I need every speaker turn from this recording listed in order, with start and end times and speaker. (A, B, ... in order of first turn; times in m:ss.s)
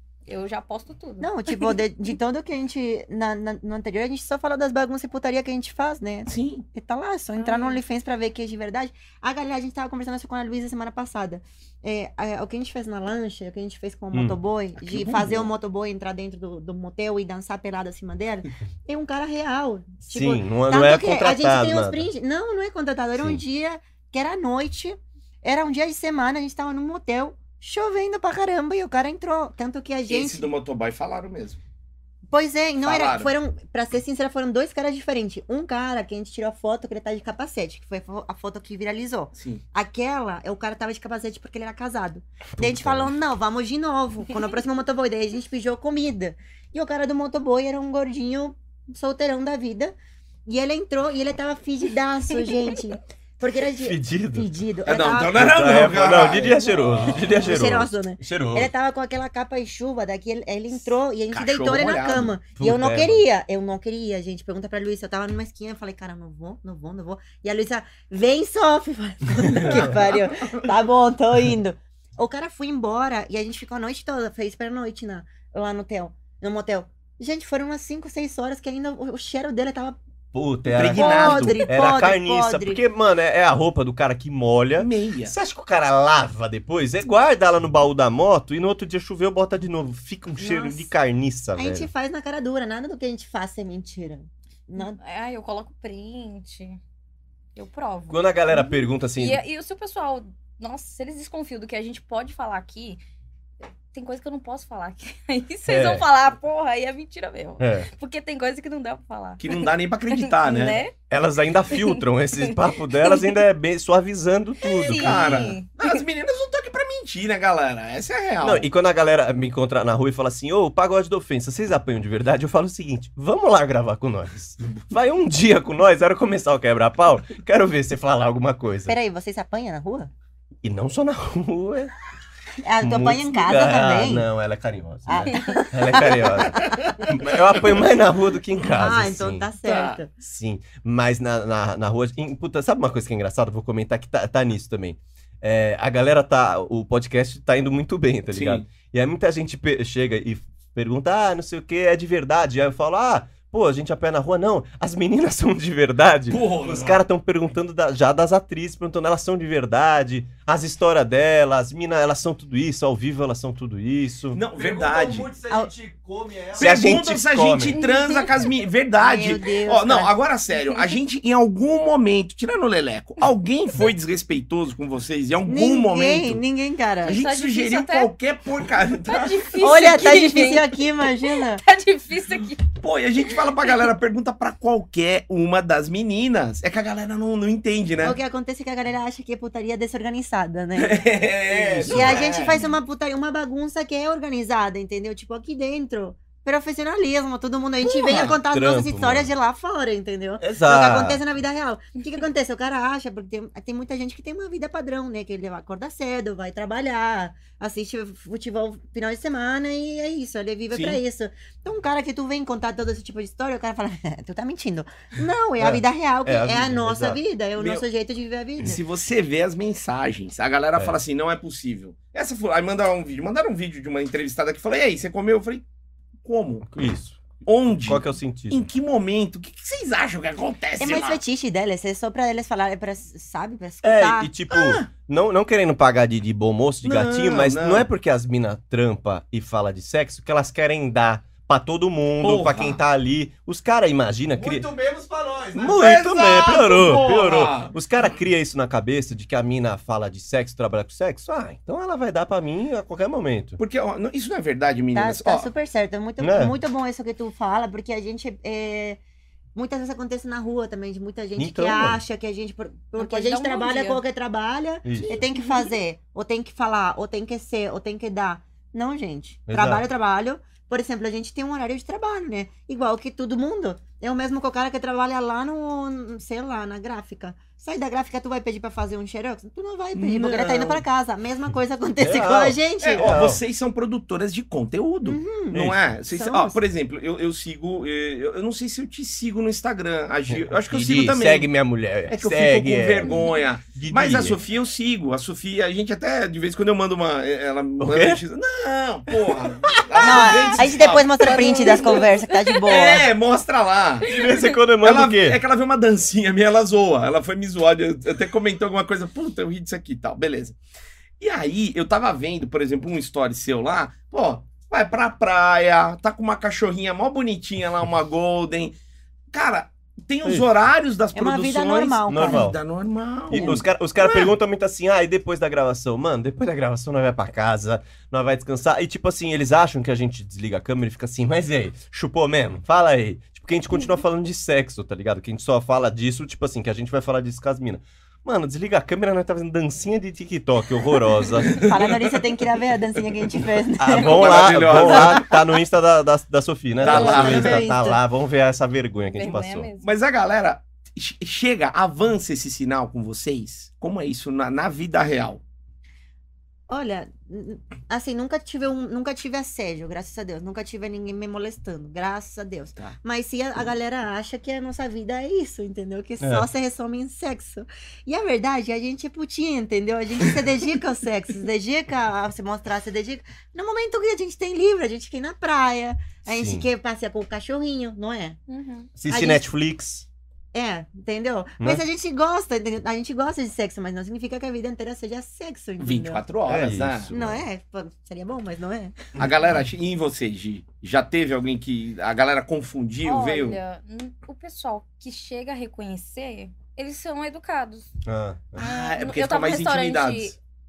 0:00.3-0:01.8 A
0:01.2-0:30.5 B
0:06.3-0:06.7 C
0:07.4-0:07.8 A
0:14.1-0:14.4 D
0:14.9-0:15.5 C
0:20.1-0:22.1 D
0:23.2-0:23.4 D
0:30.1-0:31.6 C
0:32.3-0:50.0 B
0:32.8-0:33.3 C
0:39.4-0:39.6 C
0:42.6-0:43.1 D
0:50.5-0:55.5 B
0:53.8-0:54.5 D
0:54.9-0:57.3 C
0:55.3-0:58.7 D
0:57.2-1:20.0 B
1:00.8-1:02.3 C
1:02.6-1:03.2 D
1:09.6-1:10.6 C
1:09.6-1:09.9 D
1:20.3-1:31.9 D
1:20.7-1:21.6 C
1:20.9-1:22.8 B
1:24.8-1:25.4 C
1:30.4-1:30.9 B
1:31.6-1:35.0 B
1:34.8-1:36.8 A
1:37.6-1:43.0 A
1:38.1-1:39.4 D
1:43.9-1:51.0 A
1:45.7-1:46.0 D
1:47.6-1:47.9 D
1:49.4-1:50.8 C
1:51.1-1:55.4 D
1:51.7-1:53.3 A
1:54.6-1:56.0 A
1:54.9-1:58.7 C
1:58.4-2:09.0 D
2:08.9-2:10.1 B
2:10.6-2:11.9 D
2:12.6-2:14.3 B
2:12.8-2:19.5 D
2:15.1-2:17.1 B
2:15.3-2:15.6 A
2:18.7-2:20.1 B
2:19.6-2:20.0 C
2:20.2-2:44.4 D
2:28.3-2:28.7 C
2:36.3-2:37.0 C
2:44.3-2:45.3 C
2:44.5-2:46.8 E
2:46.5-2:47.8 D
2:46.6-2:56.4 C
2:47.8-2:48.2 A
2:49.0-2:50.2 B
2:55.5-2:57.2 B
2:57.0-2:58.1 A
2:57.0-2:59.5 C
2:59.1-3:02.7 A
2:59.6-3:01.6 B
3:02.7-3:08.2 C
3:03.3-3:03.7 A
3:08.0-3:11.2 B
3:10.8-3:12.6 C
3:11.5-3:12.4 D
3:11.9-3:38.8 B
3:17.8-3:18.4 C
3:18.1-3:19.3 D
3:20.4-3:21.2 D
3:30.7-3:31.0 C
3:35.6-3:37.2 D
3:37.6-3:37.8 C
3:38.6-3:45.6 C
3:46.2-3:46.7 C
3:46.7-3:47.2 D
3:47.4-3:51.2 C
3:47.8-3:48.7 D
3:50.8-3:54.3 B
3:53.8-4:04.7 D
3:54.5-3:54.9 C
3:56.8-3:57.9 C
4:02.2-4:02.8 C
4:04.4-4:05.8 E
4:05.6-4:07.8 C
4:05.6-4:13.6 D
4:13.6-4:15.5 C
4:14.9-4:19.0 B
4:16.2-4:16.6 D
4:19.6-4:43.1 B
4:21.4-4:22.0 D
4:23.0-4:24.0 A
4:24.8-4:25.1 D
4:29.5-4:29.8 D
4:40.0-4:40.8 C
4:42.0-4:43.4 D
4:42.8-4:51.5 C
4:45.0-4:46.6 B
4:50.3-4:53.2 D
4:52.1-5:02.1 C
4:53.0-4:53.4 A
4:53.8-4:54.4 D
4:57.8-4:58.2 D
4:59.1-5:00.4 D
5:00.0-5:03.1 B
5:01.2-5:02.9 A
5:02.7-5:04.1 C
5:04.0-5:05.4 D
5:04.1-5:04.5 A
5:04.8-5:10.6 C
5:11.2-5:18.8 C
5:19.3-5:24.3 C
5:21.1-5:22.5 B
5:22.1-5:22.6 D
5:23.3-5:41.6 D
5:23.3-5:23.6 B
5:41.5-5:41.9 C
5:41.6-5:45.4 B
5:43.8-5:49.7 D
5:43.9-5:45.3 C
5:46.8-5:47.7 C
5:46.8-5:48.0 B
5:49.1-5:49.9 A
5:49.8-5:55.4 C
5:56.7-6:18.4 B
6:06.2-6:06.5 D
6:16.3-6:16.7 D
6:18.5-6:18.9 A
6:19.0-6:20.1 D
6:19.1-6:19.5 B
6:20.5-6:26.2 B
6:25.8-6:27.2 C
6:26.5-6:27.4 D
6:27.1-6:28.9 B
6:29.2-6:33.6 C
6:33.0-6:37.9 A
6:38.0-6:38.6 D
6:38.6-6:40.4 C
6:38.6-6:40.4 A